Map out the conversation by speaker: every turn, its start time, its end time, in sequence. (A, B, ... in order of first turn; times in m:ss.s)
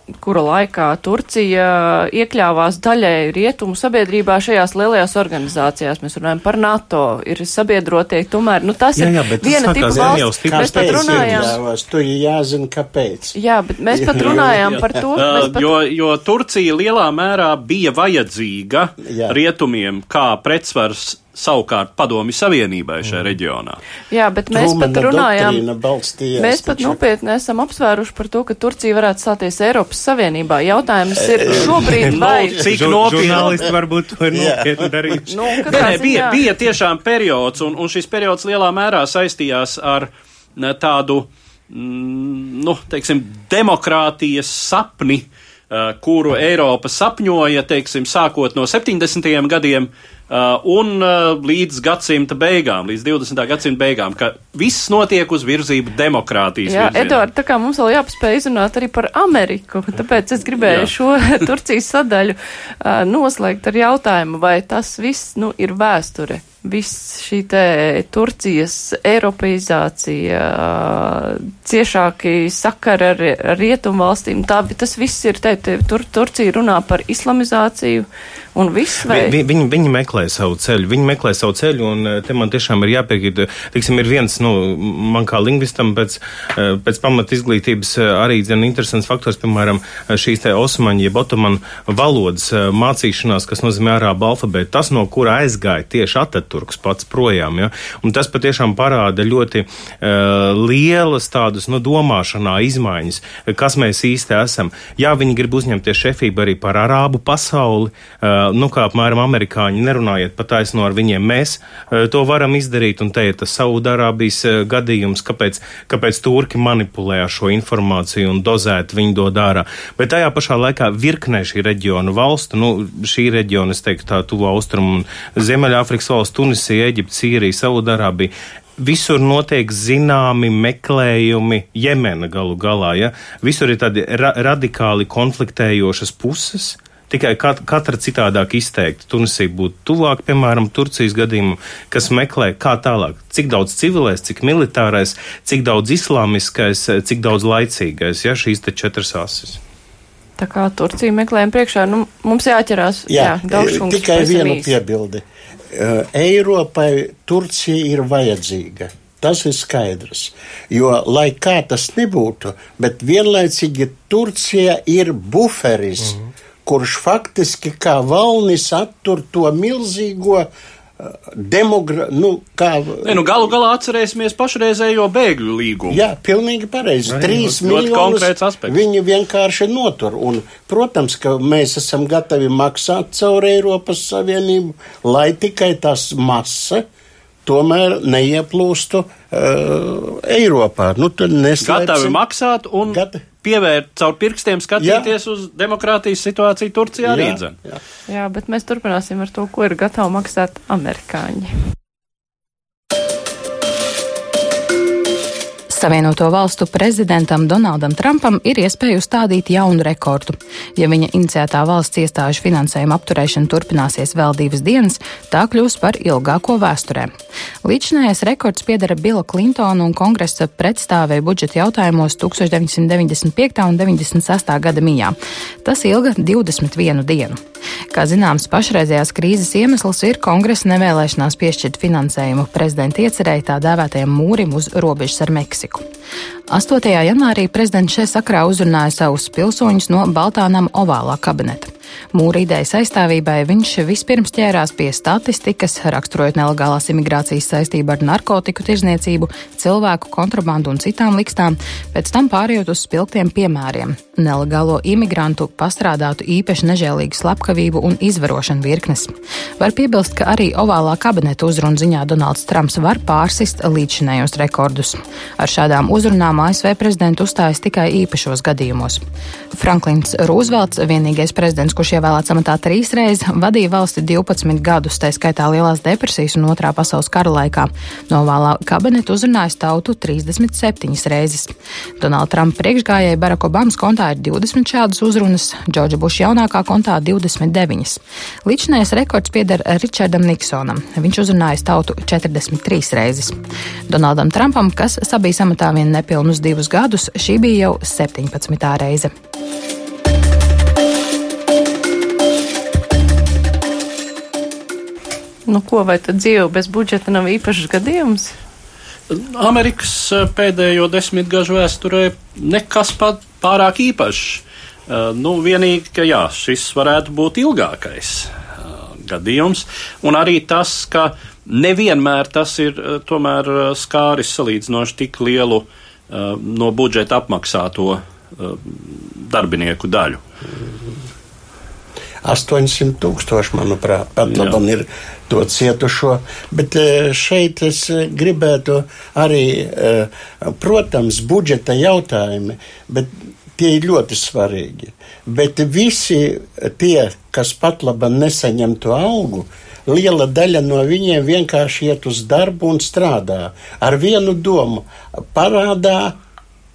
0:00.2-0:11.6 A
0:09.0-0:11.6 B
0:09.9-0:13.4 C
0:13.3-0:15.7 A
0:13.9-0:15.5 C
0:14.2-0:23.8 D
0:19.0-0:19.4 C
0:24.1-0:25.6 A
0:24.5-0:27.0 C
0:26.4-0:32.6 A
0:31.2-0:32.1 C
0:32.0-0:33.7 D
0:32.5-0:35.3 B
0:33.1-0:33.6 C
0:34.3-0:35.2 C
0:35.3-0:36.4 A
0:35.7-0:57.2 D
0:56.7-1:19.4 A
1:00.6-1:00.9 D
1:19.0-2:29.6 B
2:30.4-2:34.7 A
2:33.1-2:53.5 C
2:53.0-2:56.0 D
2:55.9-3:06.8 C
2:57.1-2:58.8 D
3:07.4-3:12.2 C
3:11.6-3:17.6 D
3:12.8-3:13.2 C
3:14.8-3:15.1 C
3:17.0-3:17.8 C
3:18.1-3:21.5 A
3:25.7-3:37.1 E
3:37.6-3:47.4 E
3:47.9-3:55.8 E
3:56.5-4:29.0 E
4:29.6-4:53.4 E
4:53.9-4:59.1 E
5:05.5-5:08.3 A
5:09.1-5:30.2 D
5:32.2-5:56.2 C